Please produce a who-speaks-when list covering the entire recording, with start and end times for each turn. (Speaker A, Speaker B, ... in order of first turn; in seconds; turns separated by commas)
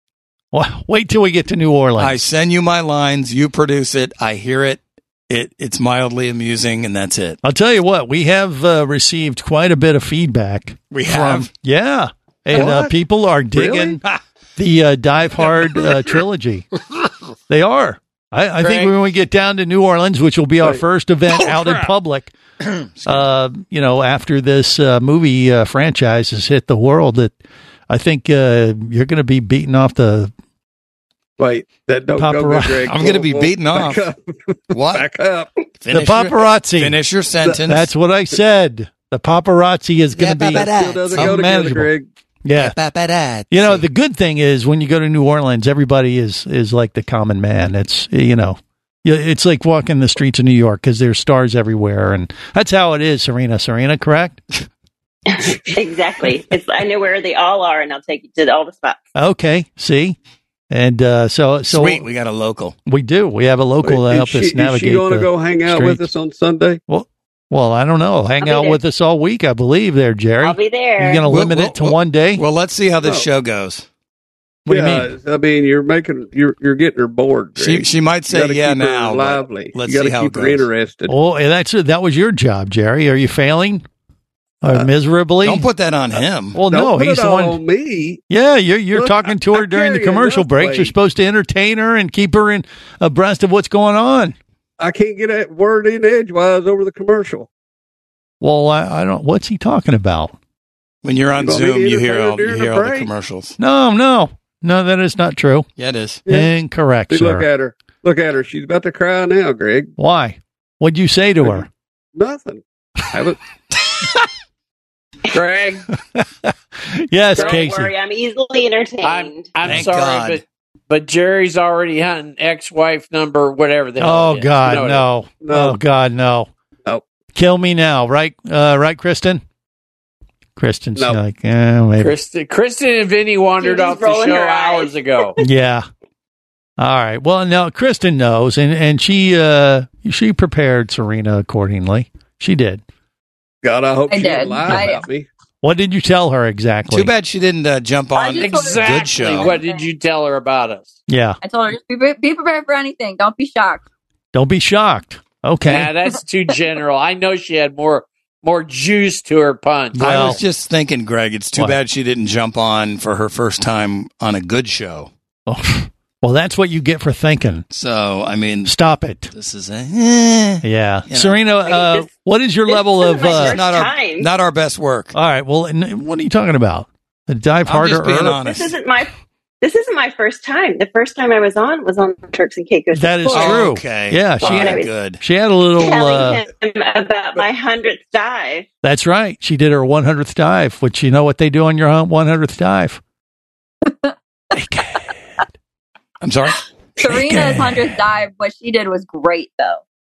Speaker A: 0.5-2.2, Speaker B: 2.0-7.4, Speaker A: 7.4-14.0, Speaker B: 10.9-11.5, Speaker B: 12.5-12.9, Speaker C: 12.5-12.8, Speaker A: 14.6-16.7, Speaker A: 17.5-22.3, Speaker D: 18.6-18.9, Speaker B: 22.6-23.2, Speaker A: 23.1-27.3, Speaker A: 27.9-30.3, Speaker C: 31.4-35.5, Speaker A: 32.1-33.0, Speaker B: 32.8-34.0, Speaker B: 34.7-35.1, Speaker B: 35.8-37.9, Speaker A: 35.9-37.0, Speaker A: 37.6-41.9, Speaker B: 40.1-41.4, Speaker C: 40.5-42.1, Speaker A: 42.4-42.8, Speaker B: 42.5-43.8, Speaker A: 43.5-54.4, Speaker E: 55.7-59.0, Speaker A: 59.1-60.2, Speaker A: 60.7-62.0, Speaker B: 61.7-62.8, Speaker A: 62.9-66.1, Speaker C: 63.8-66.8, Speaker A: 66.9-72.4, Speaker E: 68.4-68.8, Speaker E: 70.4-71.2, Speaker B: 71.2-73.8, Speaker C: 73.0-73.3, Speaker A: 74.7-75.1, Speaker C: 74.7-81.1, Speaker B: 77.6-80.7, Speaker A: 81.1-83.8, Speaker A: 84.6-85.7, Speaker B: 85.4-86.6, Speaker A: 86.5-87.6, Speaker C: 86.6-88.2, Speaker A: 88.3-94.3, Speaker C: 88.9-90.9, Speaker C: 94.8-97.5, Speaker A: 98.4-100.3, Speaker B: 101.0-103.5, Speaker C: 101.3-103.1, Speaker A: 103.6-105.7, Speaker B: 105.8-106.2, Speaker C: 106.3-106.5, Speaker A: 106.3-107.5, Speaker C: 107.1-109.9, Speaker A: 110.0-111.7, Speaker C: 111.4-113.4, Speaker D: 115.3-115.8, Speaker A: 116.9-117.9, Speaker E: 117.3-119.6, Speaker D: 119.0-125.1, Speaker B: 119.6-120.4, Speaker A: 124.0-126.5, Speaker C: 125.4-125.8, Speaker A: 127.3-129.4, Speaker A: 130.6-132.2, Speaker D: 132.0-135.4, Speaker E: 133.6-135.4, Speaker A: 135.4-135.9, Speaker A: 136.8-142.8, Speaker C: 143.6-145.2, Speaker F: 144.1-145.0, Speaker A: 144.7-144.9, Speaker A: 145.6-147.1, Speaker B: 146.9-149.6, Speaker F: 148.2-149.8, Speaker D: 148.4-150.9, Speaker A: 151.1-151.4, Speaker F: 151.4-153.8, Speaker A: 154.3-155.9, Speaker D: 155.7-160.4, Speaker A: 160.0-160.4, Speaker B: 160.0-165.1, Speaker A: 165.5-167.6, Speaker B: 167.7-168.7, Speaker A: 168.6-169.3, Speaker B: 169.3-171.4, Speaker A: 170.6-173.6, Speaker E: 171.7-172.1, Speaker E: 172.7-174.3, Speaker B: 173.2-175.1, Speaker A: 175.1-178.4, Speaker B: 177.7-178.7, Speaker E: 178.3-179.1, Speaker E: 179.6-183.8, Speaker A: 182.9-186.4, Speaker B: 183.3-185.2, Speaker E: 184.4-184.9, Speaker E: 185.8-188.7, Speaker A: 188.8-193.0, Speaker A: 194.5-195.1, Speaker B: 196.2-196.6, Speaker F: 197.0-199.8, Speaker A: 197.2-197.9